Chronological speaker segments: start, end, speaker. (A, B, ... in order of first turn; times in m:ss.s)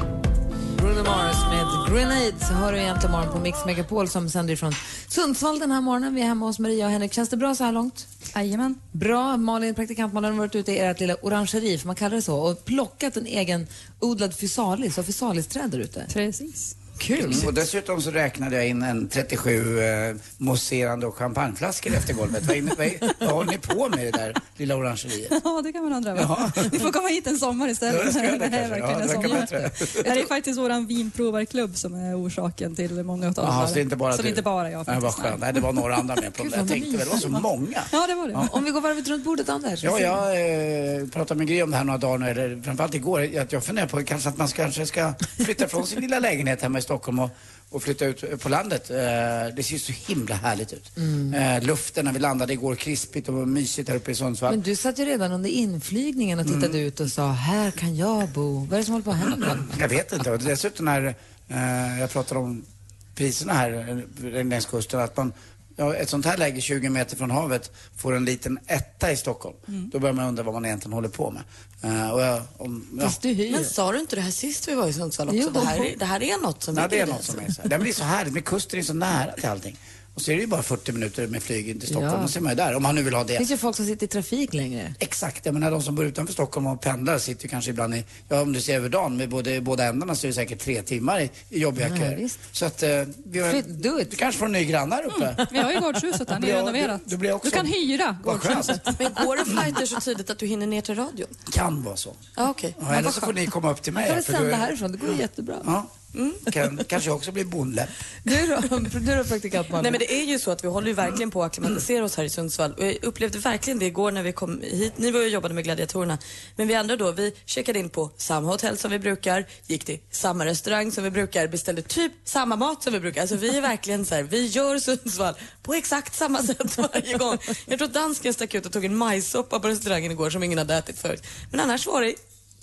0:00.7-0:08.1 A
0:08.3-0:08.8 B
0:08.9-0:16.1 A
0:16.1-0:16.7 B
0:17.0-0:17.5 A
0:17.1-0:17.4 C
0:17.2-0:25.3 D
0:25.3-0:35.8 B
0:26.1-0:26.8 D
0:27.9-0:30.1 D
0:33.4-0:38.4 D
0:36.4-0:37.3 A
0:37.9-0:38.5 B
0:38.4-0:40.2 A
0:39.8-0:54.6 D
0:51.0-0:51.4 A
0:54.5-0:59.6 A
0:56.4-0:56.8 D
0:59.3-1:02.6 D
1:03.2-1:13.2 D
1:13.0-1:13.7 A
1:13.5-1:17.4 C
1:15.3-1:15.9 A
1:16.7-1:23.4 D
1:21.9-1:22.3 A
1:23.4-1:25.0 A
1:25.0-1:35.4 D
1:31.8-1:32.4 A
1:33.4-1:34.2 A
1:35.1-1:39.0 B
1:35.5-1:35.8 A
1:36.3-1:38.8 D
1:38.9-1:41.3 C
1:41.5-1:42.2 D
1:42.4-1:43.3 C
1:42.8-1:44.7 D
1:44.0-1:45.7 A
1:45.6-1:45.9 D
1:46.1-1:46.4 C
1:46.4-1:47.9 D
1:48.2-1:50.0 A
1:49.8-2:12.2 C